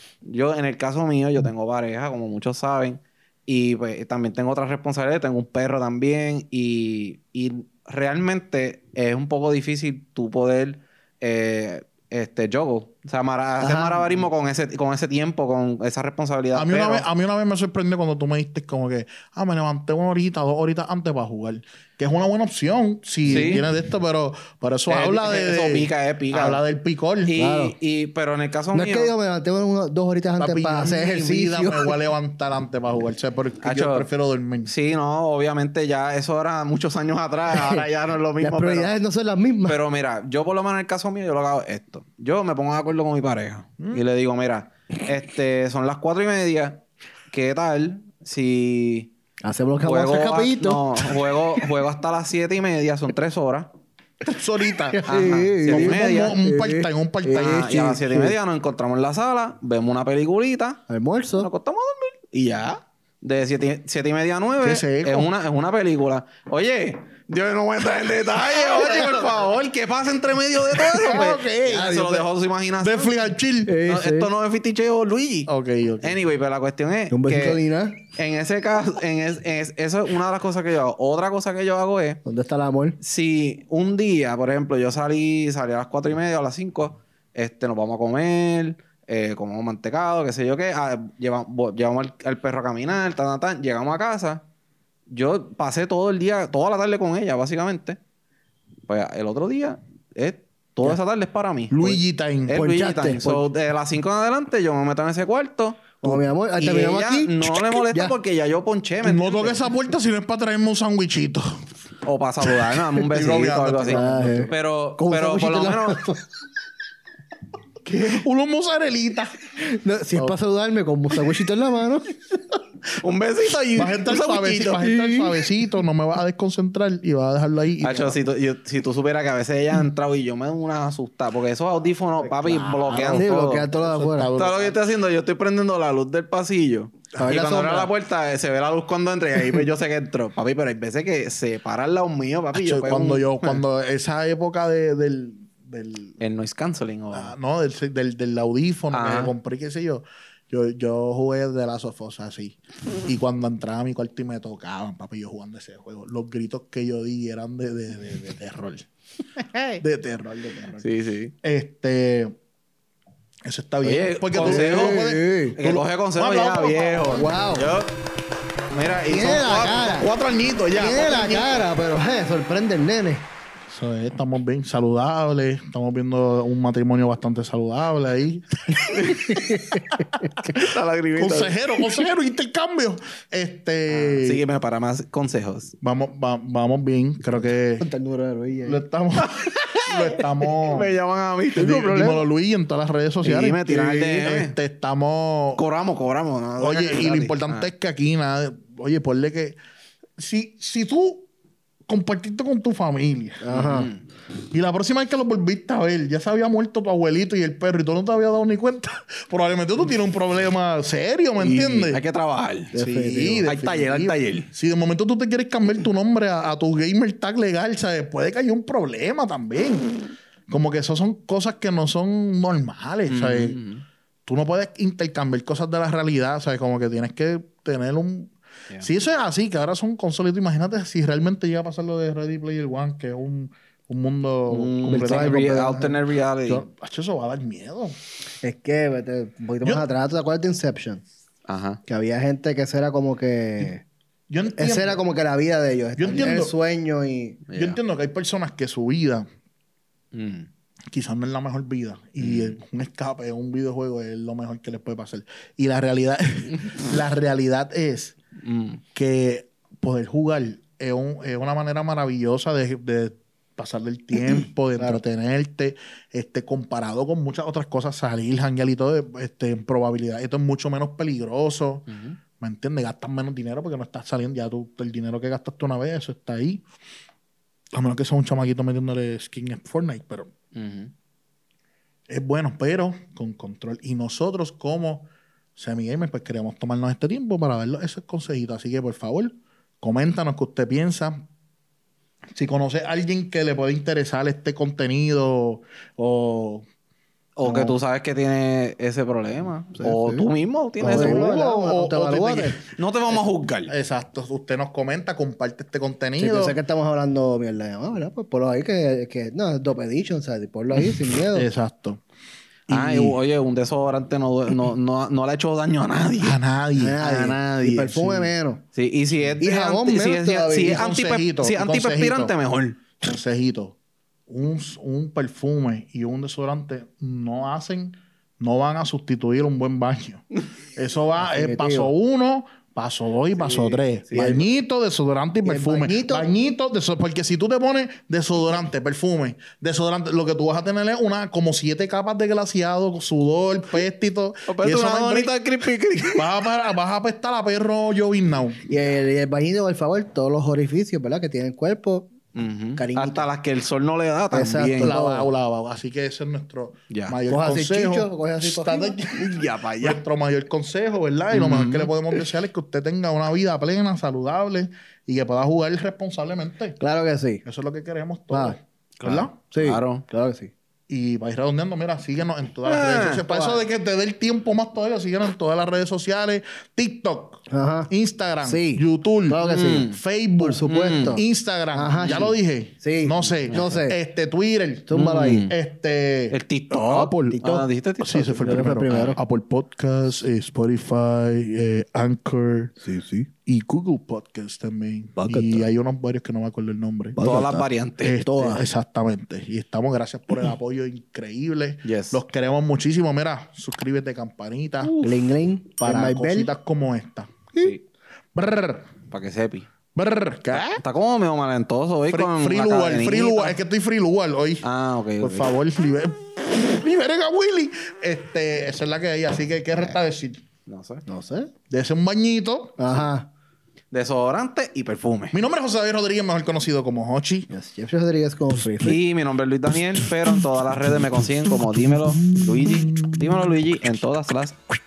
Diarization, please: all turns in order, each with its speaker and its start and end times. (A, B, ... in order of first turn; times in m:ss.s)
0:00.2-0:17.0 A
0:13.6-0:14.3 B
0:16.5-0:27.3 C
0:23.2-0:23.6 A
0:23.3-0:23.6 B
0:24.9-0:26.6 A
0:27.2-0:29.1 A
0:27.4-0:27.8 B
0:28.7-0:32.0 B
0:30.4-0:34.7 C
0:33.6-0:34.1 A
0:34.6-0:38.9 A
0:37.5-0:37.9 B
0:38.4-0:39.8 B
0:39.6-0:49.1 A
0:43.8-0:44.0 C
0:49.4-0:51.6 B
0:49.8-0:53.7 A
0:54.2-0:55.1 C
0:54.9-0:58.4 B
0:55.0-0:56.4 A
0:55.6-0:57.7 C
0:57.3-1:00.8 A
1:00.9-1:01.5 B
1:01.4-1:13.3 A
1:04.6-1:05.3 C
1:11.0-1:12.1 C
1:11.1-1:12.2 B
1:12.8-1:13.8 C
1:13.6-1:14.3 B
1:13.8-1:15.5 A
1:15.5-1:16.1 C
1:16.0-1:22.2 A
1:17.1-1:18.0 B
1:22.2-1:23.0 B
1:23.0-1:34.4 A
1:35.1-1:38.0 A
1:38.9-1:49.7 A
1:41.7-1:42.6 C
1:42.5-1:43.5 B
1:46.0-1:48.1 B
1:49.0-1:51.6 C
1:52.0-1:56.0 A
1:52.8-1:54.5 C
1:53.9-1:56.2 B
1:57.8-1:59.4 C
1:59.6-2:02.1 B
2:03.0-2:04.9 A
2:03.7-2:08.2 C
2:04.8-2:05.4 B
2:07.8-2:13.7 A
2:12.3-2:13.1 C
2:12.5-2:14.3 B
2:13.7-2:14.9 C
2:14.4-2:23.6 A
2:17.2-2:17.9 B
2:22.5-2:26.2 C
2:26.2-2:27.3 A
2:27.1-2:38.9 C
2:28.9-2:29.3 A
2:39.5-2:39.8 A
2:39.8-2:40.9 C
2:40.8-2:41.3 A
2:41.4-2:42.3 C
2:43.4-2:47.3 C
2:43.8-2:47.9 A
2:44.4-2:45.6 B
2:47.1-2:47.7 B
2:48.7-2:51.2 A
2:49.1-2:50.1 B
2:50.5-2:51.4 C
2:50.7-2:53.3 B
2:53.7-3:04.4 C
2:59.0-2:59.2 A
2:59.1-3:00.0 B
3:00.5-3:01.6 A
3:03.9-3:05.7 A
3:05.8-3:07.9 C
3:07.8-3:08.8 B
3:08.6-3:10.9 C
3:09.2-3:12.2 A
3:11.6-3:15.6 C
3:11.6-3:12.2 B
3:13.2-3:14.5 A
3:15.6-3:17.7 A
3:16.6-3:19.6 C
3:20.2-3:21.3 C
3:21.9-3:23.5 C
3:23.4-3:23.9 B
3:23.5-3:24.0 A
3:24.5-3:32.0 C
3:31.4-3:32.7 A
3:32.7-3:33.5 B
3:32.7-3:39.9 C
3:33.4-3:34.5 A
3:40.5-3:43.6 C
3:43.1-3:43.8 A
3:44.2-3:55.5 C
3:54.5-3:56.6 A
3:54.8-3:56.0 B
3:56.4-3:58.0 C
3:58.4-4:01.0 B
4:01.5-4:01.8 A
4:01.9-4:03.8 B
4:04.3-4:05.0 C
4:04.6-4:07.4 B
4:06.0-4:06.5 C
4:07.5-4:07.8 A
4:07.5-4:09.2 C
4:10.1-4:10.5 A
4:10.9-4:18.2 C
4:12.2-4:12.6 A
4:18.4-4:18.8 A
4:18.9-4:36.6 C
4:31.9-4:32.2 A
4:37.7-4:40.3 C
4:40.5-4:40.9 A
4:42.1-4:51.2 C
4:52.4-4:56.6 C
4:57.4-5:01.4 A
4:57.4-4:57.8 B
4:59.8-5:00.2 B
5:00.8-5:02.6 C
5:00.9-5:02.6 B
5:02.7-5:03.7 A
5:03.1-5:06.6 C
5:06.2-5:11.5 B
5:11.3-5:12.0 C
5:12.7-5:13.2 C
5:12.7-5:16.4 A
5:16.2-5:17.0 C
5:16.8-5:18.6 B
5:17.0-5:18.2 A
5:18.7-5:22.8 A
5:19.4-5:20.9 B
5:20.7-5:22.3 C
5:23.0-5:23.8 C
5:24.3-5:45.3 C
5:31.2-5:31.9 B
5:33.4-5:33.8 A
5:34.1-5:34.4 B
5:35.4-5:36.3 B
5:44.5-5:46.3 A
5:46.0-5:48.6 C
5:48.7-5:52.1 B
5:52.3-5:54.9 A
5:52.8-5:53.3 B
5:54.3-5:55.3 B
5:54.8-6:06.8 C
5:56.9-5:57.1 A
5:57.3-5:59.0 B
5:59.2-6:00.0 A
6:01.3-6:02.2 A
6:06.8-6:07.4 B
6:07.4-6:09.3 C
6:08.3-6:08.6 B
6:09.0-6:10.0 A
6:09.3-6:10.5 B
6:10.9-6:32.8 C
6:12.6-6:13.2 A
6:13.3-6:13.6 B
6:17.5-6:17.9 B
6:18.4-6:21.2 B
6:19.4-6:20.0 A
6:20.6-6:21.2 A
6:21.7-6:24.0 B
6:22.0-6:22.3 A
6:23.5-6:23.8 A
6:24.9-6:25.5 B
6:24.9-6:25.5 A
6:26.3-6:29.1 A
6:28.3-6:29.2 B
6:32.8-6:33.3 B
6:33.4-6:37.2 C
6:35.2-6:35.7 B
6:37.2-6:37.7 B
6:37.2-6:38.2 A
6:38.0-6:45.0 C
6:38.2-6:38.6 B
6:41.8-6:42.2 A
6:44.8-6:45.1 A
6:45.0-6:46.5 B
6:45.8-6:47.5 C
6:47.6-6:47.8 A
6:48.3-6:48.9 C
6:49.1-6:49.7 A
6:49.9-6:50.8 C
6:50.5-6:53.6 A
6:52.1-6:54.6 C
6:54.6-6:55.5 A
6:55.2-7:00.4 C
7:00.7-7:01.0 A
7:01.1-7:01.5 B
7:01.7-7:03.0 C
7:02.8-7:03.3 B
7:03.9-7:05.4 A
7:05.3-7:07.5 C
7:07.5-7:09.0 B
7:08.8-7:14.6 A
7:12.1-7:13.5 C